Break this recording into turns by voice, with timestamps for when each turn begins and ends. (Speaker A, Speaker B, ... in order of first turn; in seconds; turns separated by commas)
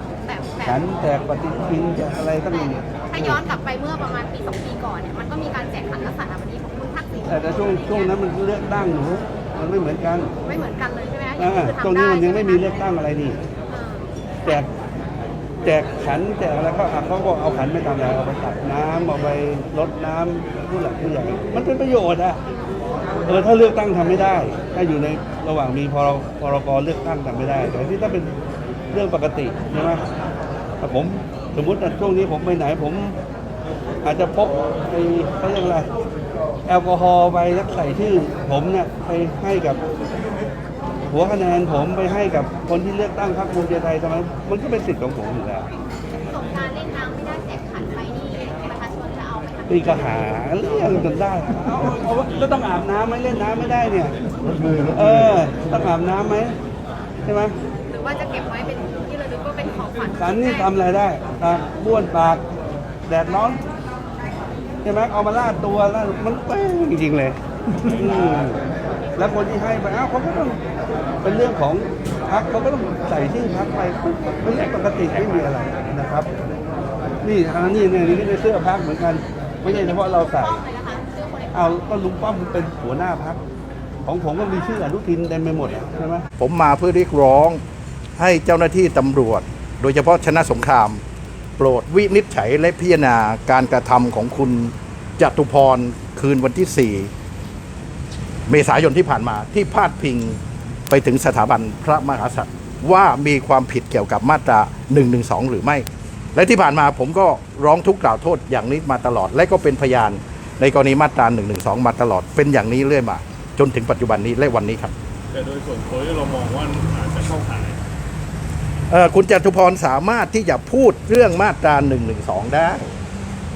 Speaker A: 0.2-1.0, Speaker B: 0.6-3.4, Speaker A: 2.5-8.2, Speaker B: 7.3-10.3, Speaker A: 10.4-12.9, Speaker B: 11.4-13.4, Speaker A: 13.7-14.6, Speaker B: 15.6-22.4, Speaker B: 23.2-28.3, Speaker B: 28.9-30.0, Speaker B: 30.8-33.1, Speaker B: 34.0-35.9, Speaker B: 36.7-39.8, Speaker B: 41.1-45.7, Speaker A: 46.2-50.2, Speaker B: 49.7-56.5, Speaker B: 57.2-57.5, Speaker A: 57.9-60.7, Speaker B: 60.2-62.4, Speaker B: 63.1-63.6, Speaker B: 64.8-68.6, Speaker B: 69.2-70.6, Speaker B: 71.2-76.3, Speaker B: 77.2-80.6, Speaker A: 79.7-81.8, Speaker B: 81.5-83.4, Speaker B: 84.0-86.2, Speaker C: 86.4-87.6, Speaker C: 88.2-91.0, Speaker C: 91.6-97.1, Speaker C: 98.5-114.9, Speaker D: 115.3-117.8, Speaker C: 118.9-122.8